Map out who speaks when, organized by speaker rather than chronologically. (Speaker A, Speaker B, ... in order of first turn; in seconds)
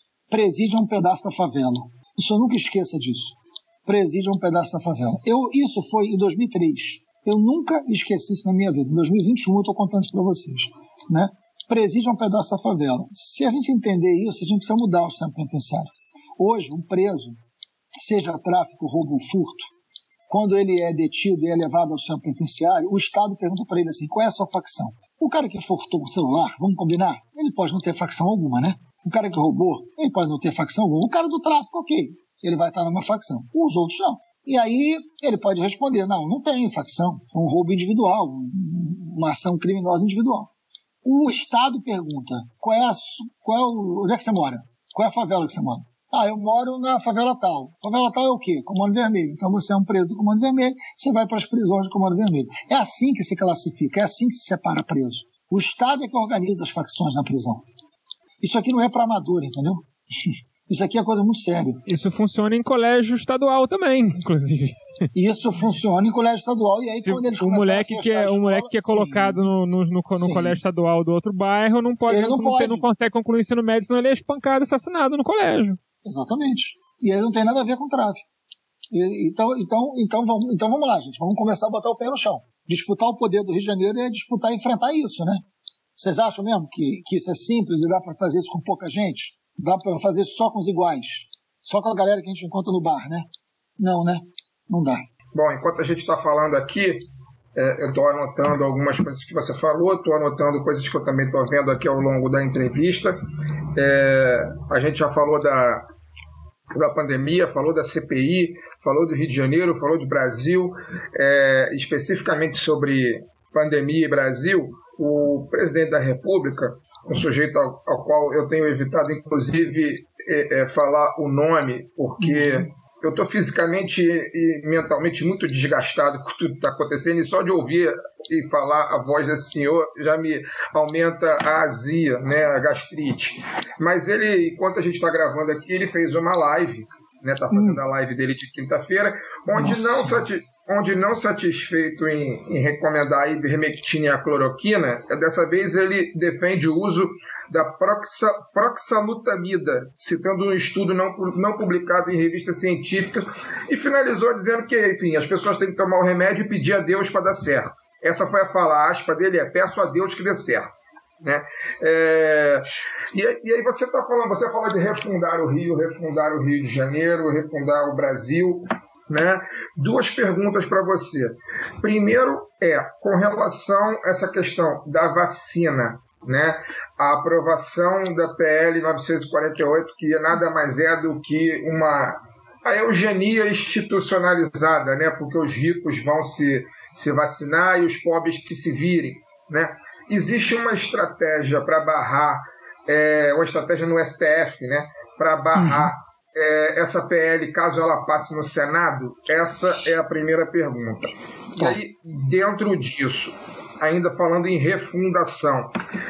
Speaker A: 0.3-17.4, 18.0-19.7, 20.3-40.5, 41.0-57.6, 58.4-61.8, 65.2-69.5, 70.1-70.6, 72.1-72.9, 76.0-78.2, 78.9-85.4, 86.0-93.3, 93.8-95.0, 122.2-122.7, 137.5-137.8, 139.5-140.3, 195.6-195.9
Speaker B: 61.9-64.8, 67.0-75.8
Speaker C: 95.3-97.0, 97.5-103.2, 103.8-105.9, 106.7-160.7, 161.2-205.7